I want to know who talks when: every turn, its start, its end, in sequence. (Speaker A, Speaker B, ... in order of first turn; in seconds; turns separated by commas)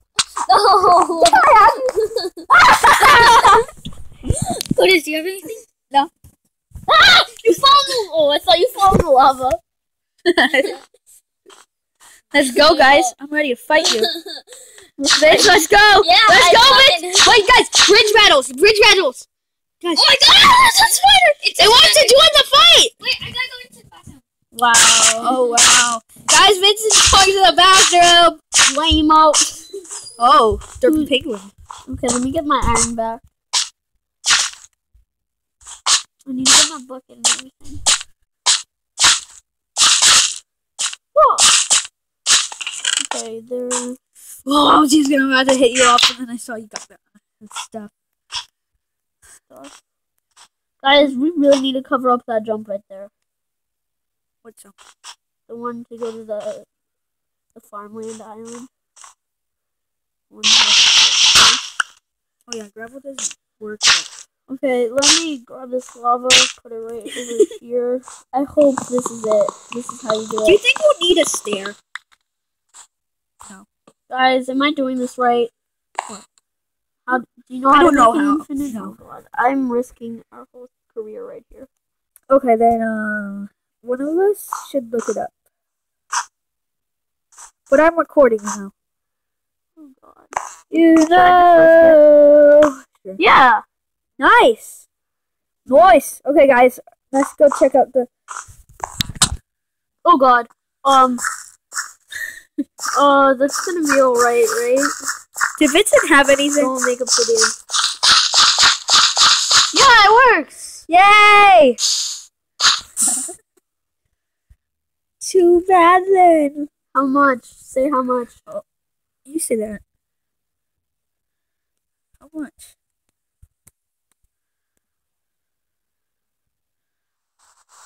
Speaker A: 0.4-2.2, Speaker B: 1.2-1.7, Speaker C: 1.2-1.8, Speaker C: 2.5-3.6, Speaker B: 2.9-3.6, Speaker A: 3.0-3.5, Speaker A: 4.3-5.7, Speaker C: 6.9-9.6, Speaker B: 10.2-10.8, Speaker B: 12.3-14.1, Speaker A: 12.4-13.1, Speaker B: 15.0-19.3, Speaker A: 15.2-17.4, Speaker B: 19.8-22.9, Speaker A: 19.9-22.2, Speaker A: 23.0-24.2, Speaker C: 24.5-25.5, Speaker B: 25.2-28.4, Speaker C: 28.6-29.6, Speaker B: 30.2-31.5, Speaker C: 30.8-31.1, Speaker C: 31.9-33.2, Speaker C: 36.2-37.8, Speaker C: 41.1-41.5, Speaker C: 43.0-44.0, Speaker B: 44.4-47.9, Speaker C: 49.5-49.8, Speaker C: 50.8-53.1, Speaker B: 54.4-54.8, Speaker C: 55.5-56.7, Speaker C: 57.5-58.7, Speaker C: 60.3-61.6, Speaker B: 62.5-64.1, Speaker C: 64.5-70.6, Speaker B: 70.4-71.8, Speaker C: 74.1-75.5, Speaker C: 77.1-81.7, Speaker B: 77.7-79.0, Speaker B: 82.3-85.3, Speaker B: 87.7-88.7, Speaker C: 89.8-90.3, Speaker B: 90.7-93.2, Speaker C: 90.9-92.0, Speaker C: 93.2-93.6, Speaker B: 94.2-94.8, Speaker B: 95.7-98.1, Speaker C: 100.0-101.2, Speaker C: 102.9-104.9, Speaker B: 105.6-106.7, Speaker C: 106.6-107.6, Speaker C: 109.7-110.8, Speaker B: 110.9-111.8, Speaker B: 115.2-116.7, Speaker C: 116.9-118.5, Speaker B: 119.2-119.8, Speaker B: 122.2-122.7